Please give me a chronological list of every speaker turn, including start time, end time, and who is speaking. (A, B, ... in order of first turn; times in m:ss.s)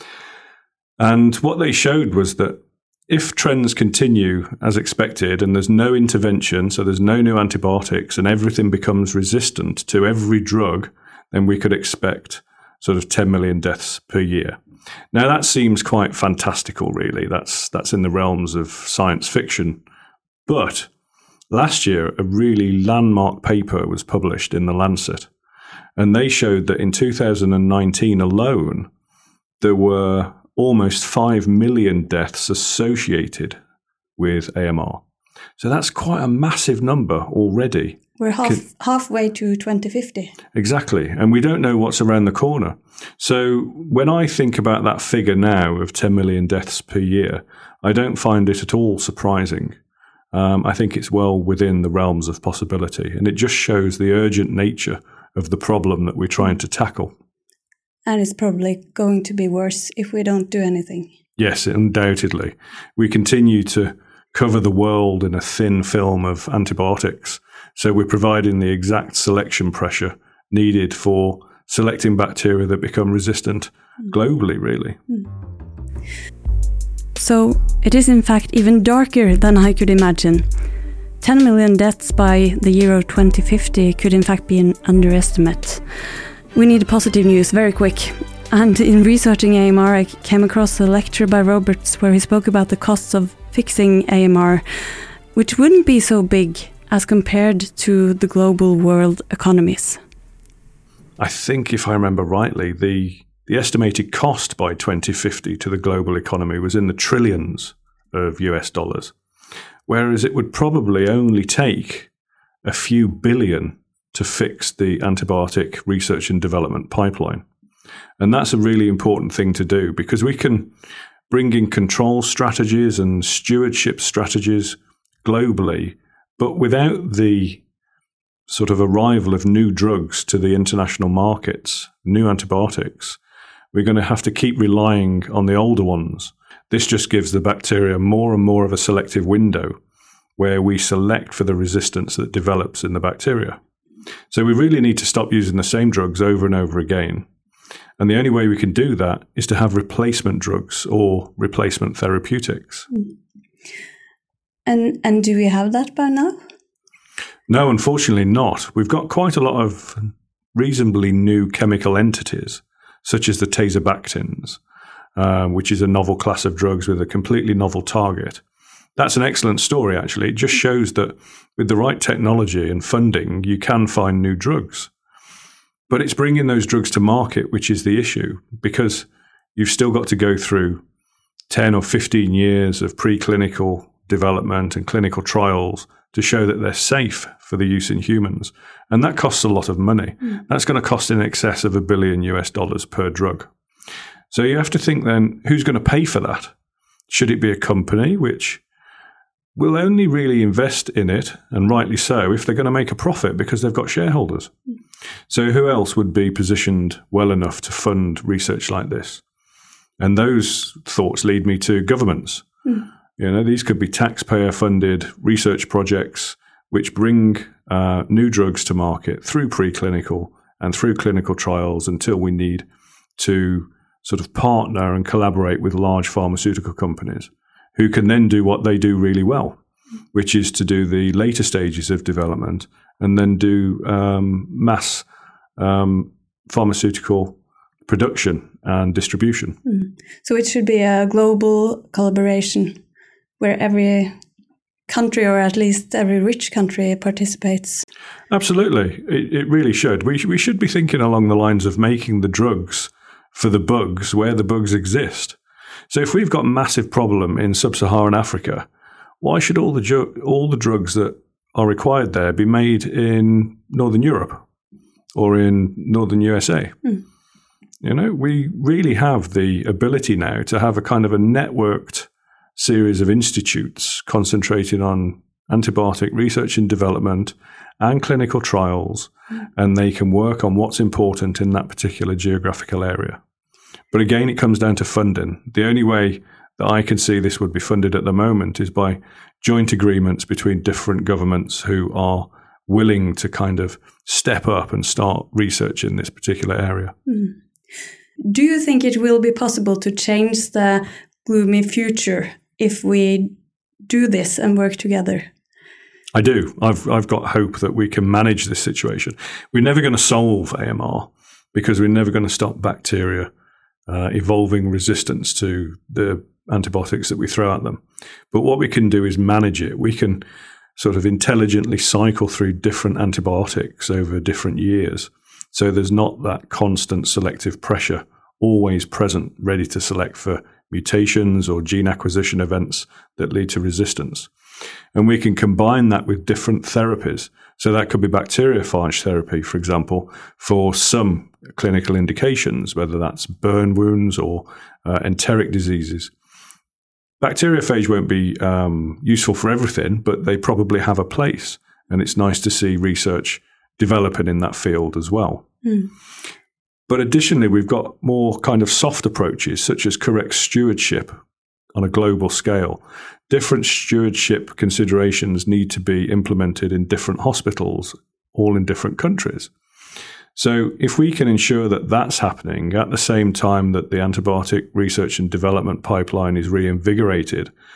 0:01.0-0:14.6 A
0:15.1-0:19.8 A
0:20.5-0:20.9 A
0:21.5-0:25.3 A
0:26.0-0:28.9 A
0:29.6-0:33.6 A
0:34.2-0:35.0 A
0:35.6-0:38.6 A
0:38.2-0:40.4 B
0:40.5-0:49.8 A
0:50.3-0:57.1 A
0:58.1-1:01.1 B
1:01.4-1:15.0 A
1:17.2-1:20.5 B
1:21.2-1:25.8 B
1:26.5-1:34.6 B
1:35.4-1:40.0 B
1:41.2-1:49.1 A
1:49.9-1:52.1 A
1:52.6-1:57.4 A
1:58.2-2:00.7 A
2:01.3-2:07.6 A
2:08.5-2:13.2 A
2:13.7-2:19.8 A
2:20.4-2:23.6 A
2:24.3-2:27.3 A
2:28.0-2:32.9 A
2:34.7-2:36.4 B
2:37.5-2:44.6 A
2:45.2-2:48.4 A
2:49.0-2:54.9 A
2:55.9-3:00.8 A
3:01.5-3:13.5 A
3:14.3-3:16.5 A
3:17.1-3:18.6 A
3:19.6-3:24.5 A
3:25.3-3:29.2 A
3:30.0-3:32.5 A
3:33.2-3:42.7 A
3:43.2-3:49.6 A
3:50.1-3:55.0 A
3:55.6-3:59.6 A
3:59.7-4:02.8 B
4:03.4-4:04.2 B
4:04.9-4:07.8 B
4:08.3-4:15.4 A
4:15.9-4:18.7 A
4:19.2-4:24.4 A
4:25.2-4:26.8 A
4:27.8-4:43.2 A
4:43.9-4:57.0 A
4:57.1-4:57.4 B
4:58.2-5:03.3 B
5:03.9-5:05.3 B
5:06.1-5:13.3 A
5:13.9-5:20.2 A
5:20.8-5:34.3 A
5:34.9-5:46.1 A
5:47.2-5:55.5 A
5:55.6-5:55.9 B
5:56.9-6:01.2 A
6:01.8-6:09.5 A
6:10.4-6:17.5 A